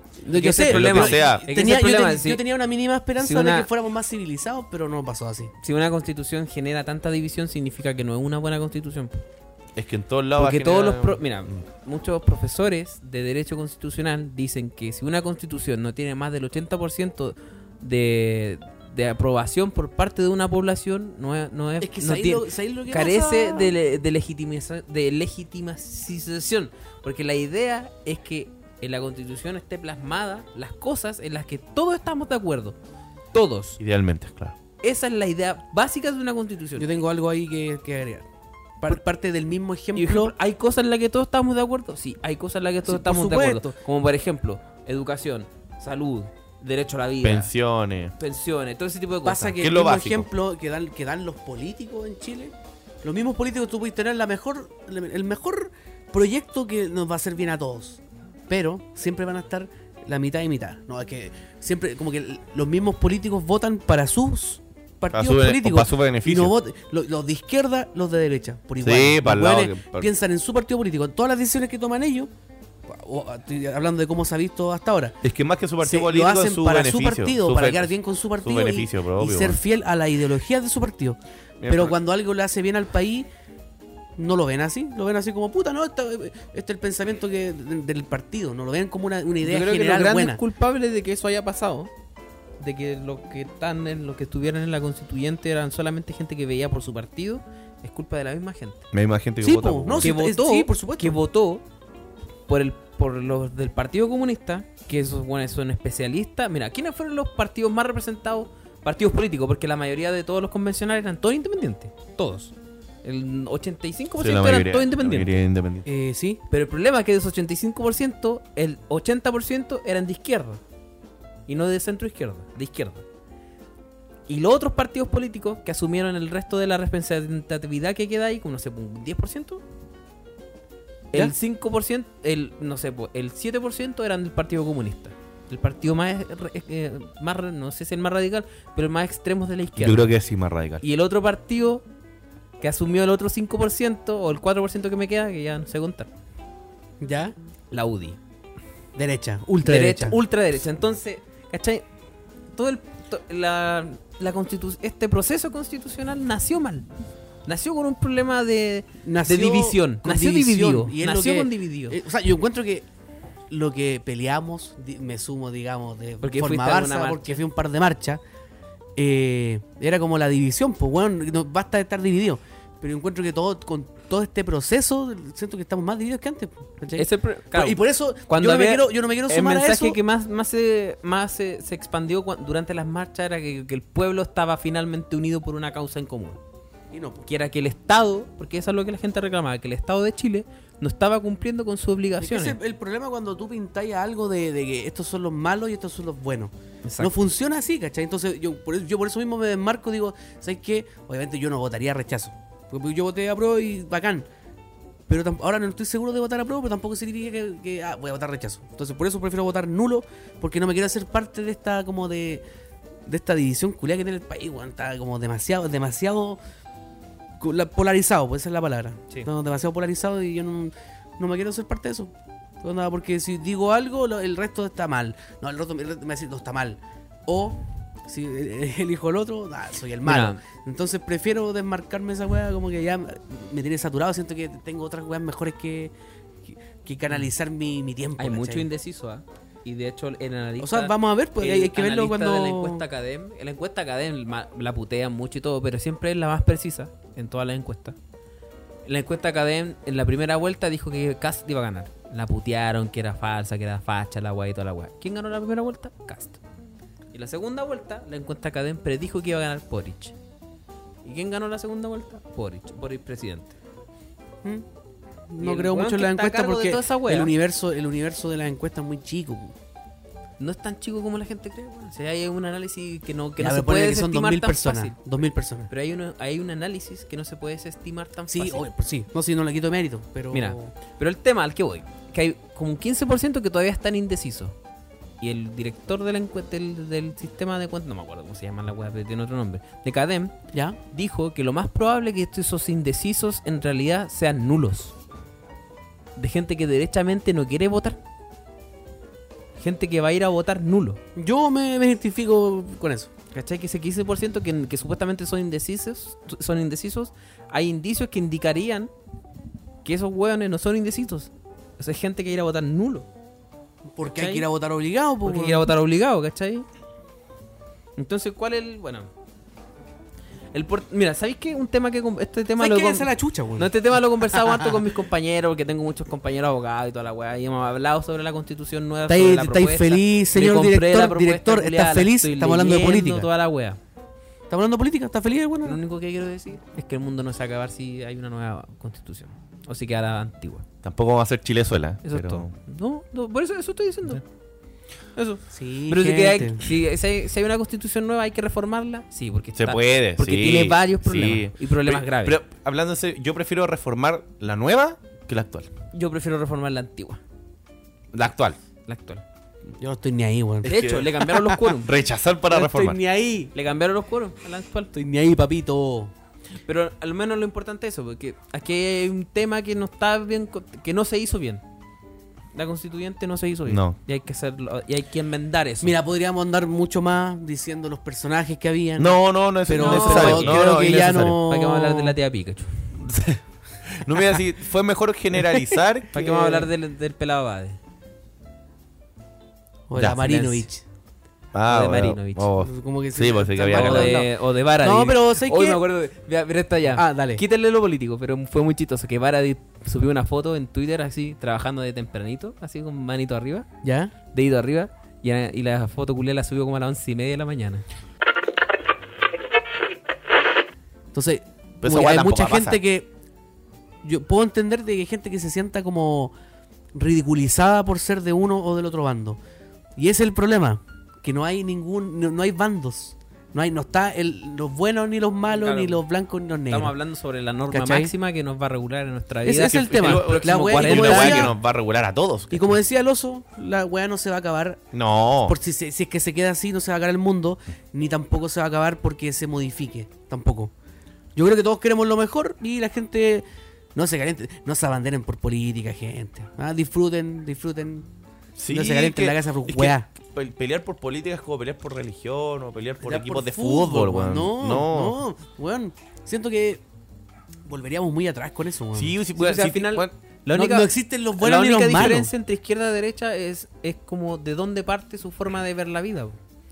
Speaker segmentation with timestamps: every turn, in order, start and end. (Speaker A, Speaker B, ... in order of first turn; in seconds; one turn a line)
Speaker A: 0.2-5.5
Speaker B: 0.3-2.4
Speaker C: 0.6-1.4
Speaker B: 3.2-3.7
Speaker B: 5.6-9.2
Speaker C: 9.8-11.6
Speaker B: 10.4-32.8
Speaker A: 21.8-23.8
Speaker B: 33.3-33.8
Speaker C: 33.8-34.6
Speaker B: 34.8-36.9
Speaker A: 36.8-38.3
Speaker A: 38.8-40.3
Speaker B: 40.0-47.5
Speaker A: 42.9-43.8
Speaker C: 47.2-48.1
Speaker B: 48.2-49.6
Speaker A: 49.2-72.3
Speaker C: 49.6-50.3
Speaker C: 65.1-66.5
Speaker C: 68.8-70.1
Speaker A: 72.9-75.2
Speaker C: 75.2-79.6
Speaker A: 75.8-83.3
Speaker C: 81.6-82.0
Speaker A: 84.2-90.4
Speaker B: 89.4-91.9
Speaker B: 92.6-98.8
Speaker C: 98.9-100.1
Speaker A: 99.4-101.2
Speaker B: 100.0-101.6
Speaker B: 102.5-112.5
Speaker B: 113.0-115.3
Speaker C: 114.2-115.9
Speaker A: 115.8-116.4
Speaker B: 116.5-120.6
Speaker B: 121.5-123.0
Speaker B: 124.3-129.6
Speaker B: 131.1-140.2
Speaker C: 139.8-140.8
Speaker B: 140.8-141.8
Speaker B: 142.6-146.1
Speaker A: 147.0-147.3
Speaker B: 147.7-148.2
Speaker A: 149.0-150.2
Speaker B: 149.6-151.8
Speaker B: 152.5-156.9
Speaker B: 157.5-162.0
Speaker A: 159.1-162.9
Speaker A: 163.5-168.2
Speaker B: 166.2-167.4
Speaker A: 169.0-180.0
Speaker B: 176.9-186.4
Speaker A: 186.9-187.3
Speaker B: 187.3-192.6
Speaker A: 192.2-204.3
Speaker B: 196.8-197.1
Speaker A: 205.1-212.4
Speaker A: 213.1-216.4
Speaker A: 217.4-235.9
Speaker B: 230.1-230.4
Speaker A: 236.5-238.7
Speaker B: 238.2-248.0
Speaker A: 240.6-242.8
Speaker B: 248.9-256.4
Speaker B: 257.1-260.1
Speaker B: 261.1-263.6
Speaker A: 265.3-269.6
Speaker B: 265.4-267.3
Speaker B: 270.4-274.9
Speaker A: 273.4-275.7
Speaker B: 275.7-278.6
Speaker A: 278.3-280.8
Speaker B: 280.3-284.6
Speaker B: 285.2-290.4
Speaker A: 290.5-290.8
Speaker B: 290.9-294.9
Speaker B: 296.2-298.0
Speaker B: 299.6-301.0
Speaker A: 301.2-303.1
Speaker B: 303.3-308.9
Speaker B: 309.9-313.1
Speaker A: 313.9-315.7
Speaker B: 314.1-314.5
Speaker B: 315.2-316.7
Speaker B: 318.0-319.1
Speaker B: 320.5-333.8
Speaker A: 322.6-324.8
Speaker A: 329.1-333.3
Speaker A: 334.5-335.8
Speaker B: 335.6-340.6
Speaker C: 340.8-342.5
Speaker B: 342.0-344.2
Speaker B: 345.2-352.4
Speaker A: 345.5-346.6
Speaker C: 349.6-355.7
Speaker B: 355.9-357.2
Speaker C: 358.1-358.6
Speaker B: 358.9-359.2
Speaker A: 359.8-361.6
Speaker C: 360.6-361.1
Speaker B: 360.6-361.9
Speaker C: 361.8-363.0
Speaker A: 362.5-363.5
Speaker B: 363.5-364.9
Speaker A: 364.9-366.1
Speaker B: 366.7-371.6
Speaker B: 372.5-376.0
Speaker C: 373.7-374.0
Speaker A: 375.8-382.1
Speaker C: 379.0-381.4
Speaker B: 379.8-380.7
Speaker B: 381.5-382.7
Speaker C: 383.0-386.6
Speaker B: 386.1-387.8
Speaker A: 389.9-390.8
Speaker C: 390.0-390.5
Speaker C: 391.5-394.2
Speaker B: 391.7-392.5
Speaker A: 392.6-395.8
Speaker B: 393.7-403.7
Speaker A: 396.9-397.4
Speaker A: 403.8-404.1
Speaker B: 404.3-407.9
Speaker A: 411.1-413.1
Speaker C: 411.8-412.8
Speaker A: 414.0-416.3
Speaker A: 416.9-419.4
Speaker A: 420.0-426.9
Speaker B: 425.5-426.0
Speaker B: 426.7-431.6
Speaker A: 427.7-428.1
Speaker A: 429.4-431.5
Speaker C: 429.6-432.8
Speaker A: 432.5-434.8
Speaker C: 434.9-435.6
Speaker A: 435.4-440.7
Speaker A: 441.4-448.1
Speaker C: 448.6-455.2
Speaker A: 448.7-450.1
Speaker A: 453.0-456.8
Speaker A: 457.7-459.2
Speaker C: 458.9-460.1
Speaker B: 459.4-466.4
Speaker A: 460.5-462.3